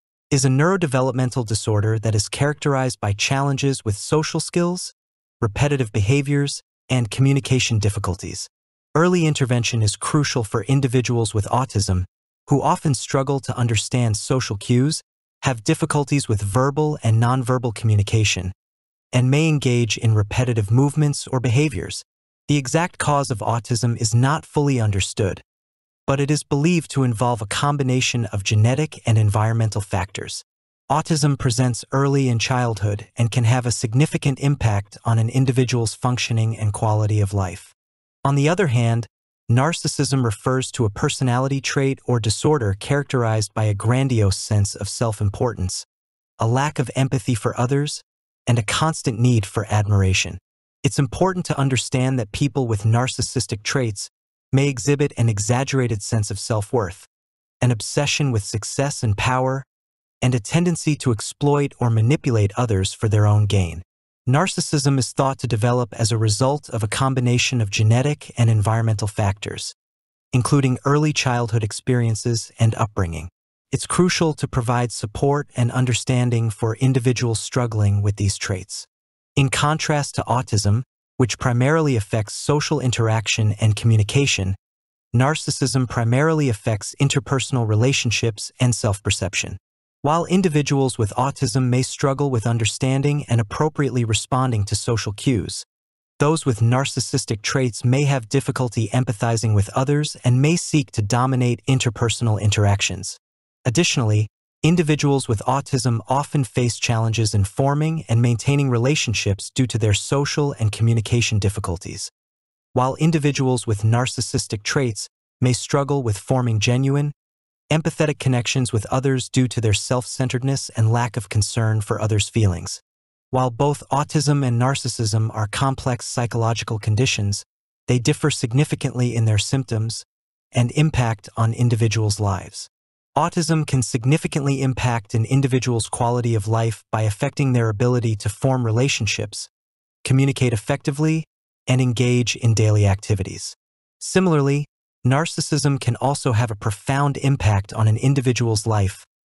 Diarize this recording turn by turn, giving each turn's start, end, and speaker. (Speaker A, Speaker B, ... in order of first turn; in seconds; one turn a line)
Speaker A: 0.3-18.5
Speaker A: 19.1-25.4
Speaker A: 26.1-45.9
Speaker A: 46.4-57.1
Speaker A: 57.6-59.7
Speaker A: 60.2-69.8
Speaker A: 70.3-84.6
Speaker A: 85.1-95.7
Speaker A: 96.2-112.1
Speaker A: 112.7-117.1
Speaker A: 117.7-139.5
Speaker A: 140.0-149.1